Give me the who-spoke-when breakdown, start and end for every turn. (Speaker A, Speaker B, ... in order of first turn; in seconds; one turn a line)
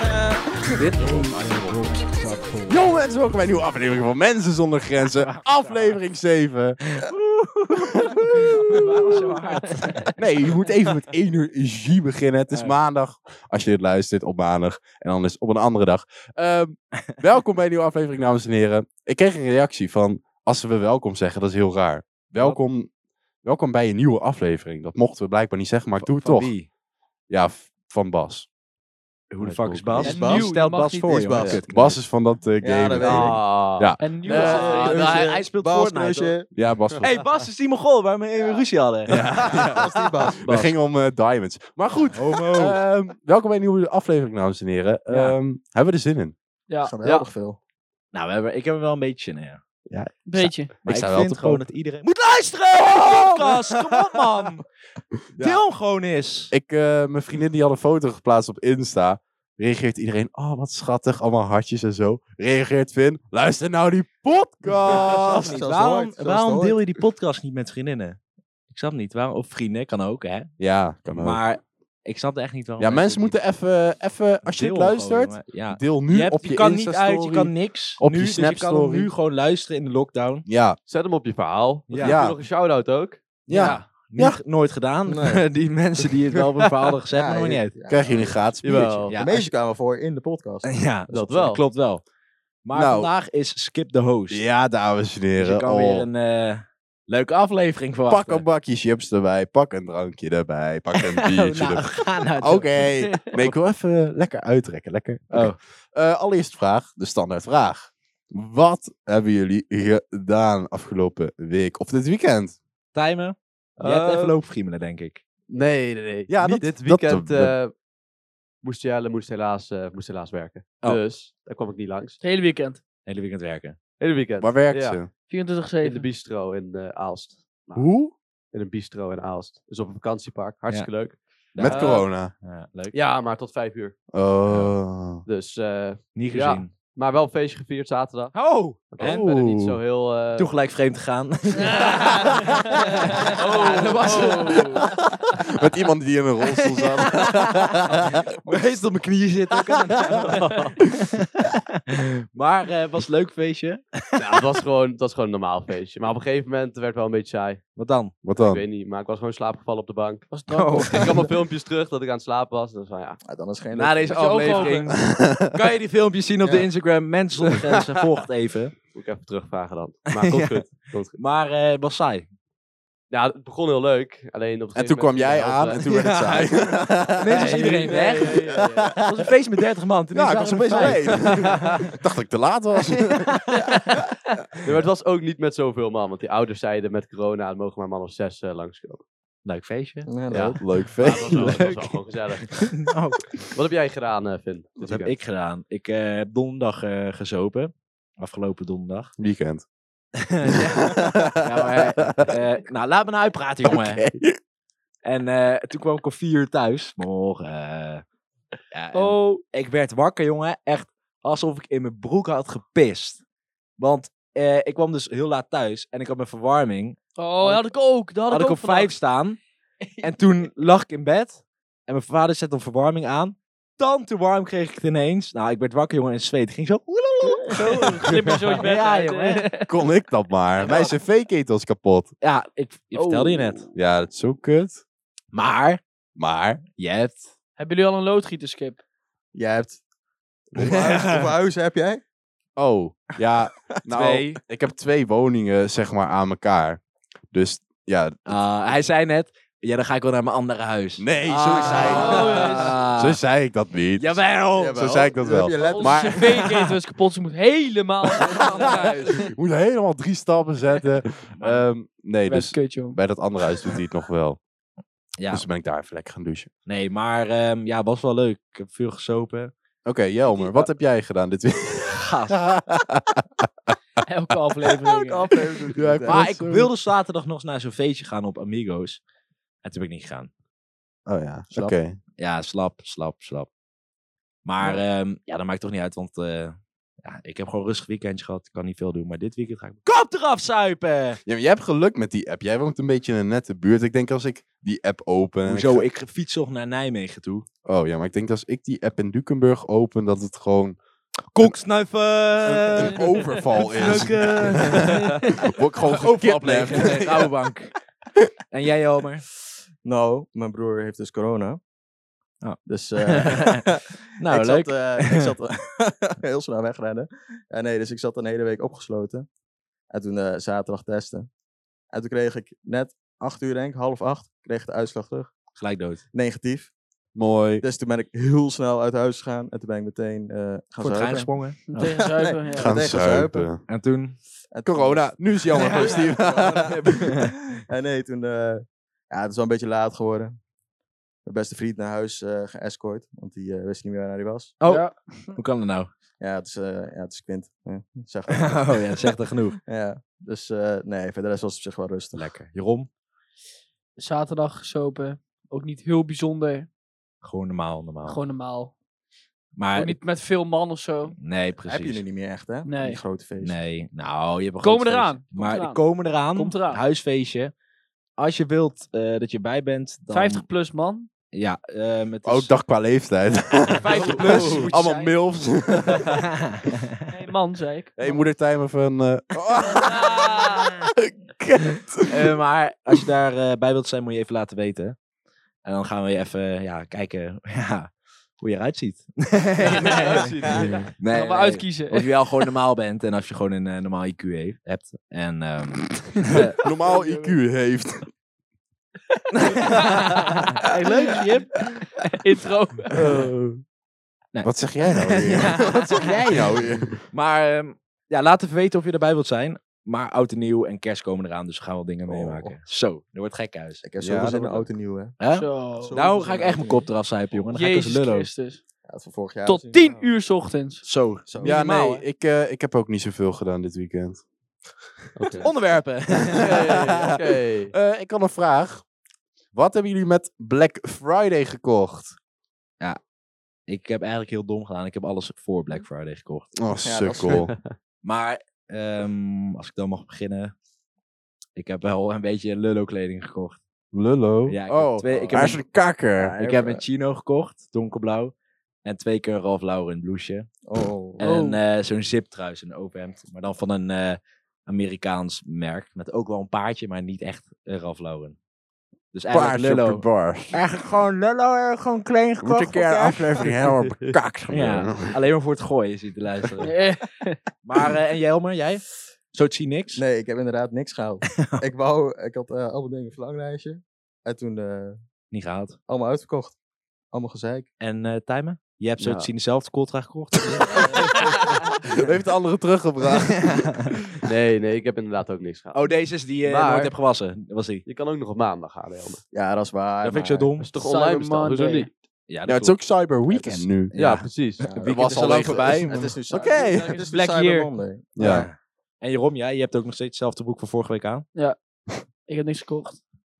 Speaker A: 0.7-2.9
Speaker B: 1.0-1.8
Speaker B: 2.6-7.0
Speaker A: 5.1-6.0
Speaker A: 6.9-10.1
Speaker B: 7.8-8.9
Speaker C: 8.5-10.1
Speaker B: 10.1-22.9
Speaker B: 23.4-26.5
Speaker A: 25.9-26.7
Speaker B: 27.3-28.5
Speaker A: 29.3-32.0
Speaker D: 29.4-30.1
Speaker C: 30.0-31.6
Speaker E: 30.0-30.4
Speaker E: 31.2-31.5
Speaker D: 31.4-31.6
Speaker B: 31.7-34.0
Speaker E: 32.6-33.4
Speaker D: 33.0-34.9
Speaker C: 34.0-35.1
Speaker A: 34.2-36.4
Speaker E: 34.2-36.5
Speaker B: 36.5-37.2
Speaker A: 37.0-39.9
Speaker B: 39.1-46.3
Speaker E: 39.5-40.4
Speaker D: 40.4-40.7
Speaker A: 42.1-42.8
Speaker A: 45.1-45.4
Speaker C: 46.7-46.9
Speaker E: 46.8-47.6
Speaker D: 47.0-47.3
Speaker A: 48.1-49.6
Speaker B: 49.9-51.6
Speaker C: 50.2-50.7
Speaker A: 50.8-54.6
Speaker B: 52.7-54.2
Speaker B: 55.3-55.6
Speaker A: 55.4-56.5
Speaker B: 56.5-65.6
Speaker A: 64.8-70.5
Speaker E: 65.1-66.8
Speaker B: 70.6-71.4
Speaker A: 71.1-73.4
Speaker B: 72.8-79.1
Speaker A: 74.5-80.5
Speaker B: 80.5-80.8
Speaker D: 80.9-83.3
Speaker A: 81.9-82.2
Speaker B: 82.0-82.4
Speaker B: 83.5-84.4
Speaker A: 83.5-87.8
Speaker E: 85.1-85.4
Speaker E: 87.1-90.7
Speaker B: 87.9-89.1
Speaker D: 88.6-89.2
Speaker A: 89.1-89.5
Speaker A: 90.6-92.0
Speaker D: 91.1-91.6
Speaker A: 92.6-94.5
Speaker B: 92.7-93.1
Speaker B: 94.3-96.1
Speaker A: 95.4-98.5
Speaker B: 98.1-112.6
Speaker A: 100.9-102.8
Speaker A: 105.3-105.6
Speaker A: 112.9-115.2
Speaker D: 113.8-114.3
Speaker D: 115.5-117.7
Speaker B: 116.3-117.5
Speaker D: 118.6-122.2
Speaker C: 122.2-122.8
Speaker A: 123.0-123.8
Speaker D: 124.0-125.1
Speaker B: 124.4-125.1
Speaker C: 125.3-126.0
Speaker D: 125.8-127.9
Speaker B: 127.7-128.1
Speaker D: 128.5-132.1
Speaker A: 131.5-132.9
Speaker B: 131.6-132.3
Speaker D: 132.9-134.0
Speaker B: 134.1-135.2
Speaker A: 134.4-134.7
Speaker D: 135.2-140.5
Speaker A: 136.1-136.7
Speaker A: 138.3-139.3
Speaker B: 139.0-139.8
Speaker A: 140.3-144.9
Speaker C: 141.7-143.3
Speaker D: 141.7-142.6
Speaker D: 143.2-144.9
Speaker B: 145.3-148.2
Speaker A: 148.4-150.5
Speaker D: 150.1-150.8
Speaker A: 151.4-154.4
Speaker D: 154.2-157.7
Speaker A: 157.8-158.1
Speaker B: 158.2-158.6
Speaker D: 158.3-160.3
Speaker C: 160.3-161.2
Speaker A: 160.5-161.2
Speaker D: 160.8-163.2
Speaker E: 163.2-164.7
Speaker A: 163.7-168.7
Speaker C: 164.1-164.9
Speaker B: 164.9-165.5
Speaker E: 166.4-166.7
Speaker D: 168.9-171.2
Speaker A: 170.1-170.5
Speaker A: 171.1-172.3
Speaker D: 173.1-175.8
Speaker B: 174.7-177.5
Speaker A: 175.8-176.6
Speaker A: 177.1-181.8
Speaker D: 177.3-179.0
Speaker B: 180.1-184.0
Speaker D: 181.3-181.6
Speaker D: 184.6-189.0
Speaker A: 189.4-190.1
Speaker E: 190.1-190.6
Speaker D: 190.3-192.8
Speaker B: 190.6-191.9
Speaker A: 191.0-191.6
Speaker A: 192.7-193.3
Speaker D: 193.4-195.2
Speaker A: 194.8-199.1
Speaker B: 199.2-199.6
Speaker A: 200.2-204.0
Speaker B: 200.4-202.3
Speaker B: 203.6-204.4
Speaker A: 205.0-208.0
Speaker A: 208.7-213.2
Speaker C: 208.9-209.4
Speaker A: 213.8-217.7
Speaker C: 217.2-218.9
Speaker A: 218.3-219.4
Speaker C: 219.9-220.2
Speaker A: 220.0-229.5
Speaker C: 227.3-229.7
Speaker B: 229.7-232.1
Speaker A: 230.6-230.9
Speaker A: 232.2-233.7
Speaker C: 232.9-233.6
Speaker B: 233.7-234.8
Speaker A: 235.3-235.8
Speaker B: 236.2-236.6
Speaker A: 236.8-237.3
Speaker C: 237.6-238.8
Speaker E: 239.3-239.8
Speaker E: 240.5-242.0
Speaker A: 240.5-241.3
Speaker B: 242.6-246.8
Speaker A: 243.9-244.4
Speaker B: 247.3-248.2
Speaker A: 248.2-253.2
Speaker B: 251.0-254.2
Speaker E: 251.7-252.2
Speaker C: 251.7-252.8
Speaker A: 253.9-254.9
Speaker E: 254.6-256.3
Speaker B: 254.7-256.7
Speaker C: 255.5-259.3
Speaker B: 258.1-264.4
Speaker A: 258.5-258.9
Speaker A: 261.4-261.6
Speaker C: 262.3-263.0
Speaker A: 265.2-265.4
Speaker B: 265.3-266.5
Speaker A: 266.6-269.5
Speaker B: 269.8-273.7
Speaker A: 270.3-270.7
Speaker A: 271.9-272.4
Speaker C: 274.1-275.3
Speaker E: 274.8-276.2
Speaker B: 275.7-276.7
Speaker A: 276.1-279.0
Speaker A: 279.6-280.3
Speaker B: 281.1-282.0
Speaker A: 281.5-283.5
Speaker A: 284.4-291.2
Speaker B: 291.2-295.8
Speaker A: 295.4-297.4
Speaker B: 297.6-300.8
Speaker A: 301.3-307.7
Speaker B: 302.4-307.3
Speaker A: 308.5-309.2
Speaker E: 309.8-311.6
Speaker A: 312.4-313.6
Speaker E: 312.6-319.3
Speaker A: 314.2-315.2
Speaker E: 319.9-321.3
Speaker E: 321.9-325.3
Speaker A: 325.5-326.0
Speaker E: 326.1-326.7
Speaker B: 327.1-327.6
Speaker E: 327.6-333.5
Speaker A: 330.8-332.1
Speaker C: 331.7-332.8
Speaker B: 332.5-333.6
Speaker A: 333.7-334.2
Speaker E: 334.5-340.4
Speaker B: 334.6-337.1
Speaker C: 335.6-336.0
Speaker E: 341.2-344.6
Speaker A: 344.6-345.9
Speaker C: 344.6-345.4
Speaker E: 346.2-349.1
Speaker A: 348.3-349.6
Speaker E: 349.6-352.3
Speaker A: 352.1-352.9
Speaker C: 354.0-356.7
Speaker A: 357.2-358.2
Speaker C: 358.1-358.7
Speaker A: 359.6-360.0
Speaker C: 359.7-361.1
Speaker A: 361.2-362.0
Speaker E: 361.6-363.6
Speaker C: 362.6-363.0
Speaker A: 363.4-367.5
Speaker C: 364.6-366.8
Speaker A: 368.2-370.4
Speaker C: 370.1-371.1
Speaker A: 371.3-372.5
Speaker B: 372.2-376.2
Speaker A: 373.8-375.1
Speaker D: 373.9-374.7
Speaker C: 374.8-375.0
Speaker A: 376.1-376.8
Speaker C: 377.1-378.2
Speaker B: 378.0-382.3
Speaker C: 379.6-380.7
Speaker A: 382.1-385.0
Speaker A: 385.6-396.6
Speaker C: 389.6-390.0
Speaker D: 389.7-390.9
Speaker C: 391.0-392.2
Speaker B: 396.6-398.1
Speaker C: 396.6-397.4
Speaker A: 399.3-401.5
Speaker C: 399.4-400.1
Speaker C: 401.9-403.3
Speaker B: 403.0-403.6
Speaker A: 404.3-413.8
Speaker B: 404.4-407.0
Speaker E: 412.1-412.6
Speaker E: 413.8-415.2
Speaker B: 414.0-414.7
Speaker A: 415.2-418.3
Speaker C: 415.3-416.1
Speaker E: 415.8-416.9
Speaker C: 417.5-418.6
Speaker E: 418.9-420.1
Speaker C: 419.4-420.8
Speaker A: 420.8-422.0
Speaker E: 421.2-421.6
Speaker B: 421.4-424.2
Speaker D: 425.1-425.5
Speaker B: 425.2-425.4
Speaker A: 425.4-426.8
Speaker B: 426.3-428.8
Speaker D: 426.4-427.7
Speaker B: 429.5-432.1
Speaker A: 433.7-436.5
Speaker B: 436.5-437.5
Speaker E: 436.8-437.5
Speaker D: 437.2-437.7
Speaker A: 438.0-440.5
Speaker A: 441.6-443.6
Speaker B: 443.9-446.4
Speaker A: 444.5-445.6
Speaker E: 445.1-445.6
Speaker E: 446.2-446.8
Speaker A: 446.2-448.3
Speaker A: 448.8-450.5
Speaker E: 450.6-451.2
Speaker A: 451.2-458.4
Speaker C: 451.2-451.6
Speaker A: 459.1-463.5
Speaker B: 459.3-460.6
Speaker B: 462.4-465.1
Speaker D: 463.4-464.1
Speaker A: 464.5-466.7
Speaker C: 466.6-467.4
Speaker A: 467.6-470.0
Speaker E: 469.9-475.0
Speaker A: 471.3-471.6
Speaker A: 475.3-475.8
Speaker E: 475.9-476.6
Speaker E: 477.1-477.7
Speaker A: 477.8-480.8
Speaker D: 479.0-479.3
Speaker B: 480.5-483.7
Speaker A: 483.5-483.9
Speaker D: 484.2-485.9
Speaker A: 485.7-487.8
Speaker D: 486.4-486.9
Speaker D: 487.9-489.2
Speaker E: 489.3-490.5
Speaker A: 490.0-490.7
Speaker D: 490.6-491.9
Speaker C: 490.8-491.9
Speaker A: 492.3-492.8
Speaker B: 492.4-493.9
Speaker E: 493.3-498.1
Speaker A: 493.9-496.0
Speaker D: 494.0-494.6
Speaker B: 494.8-497.0
Speaker C: 496.6-497.7
Speaker B: 498.1-498.5
Speaker A: 498.2-501.2
Speaker C: 502.2-503.0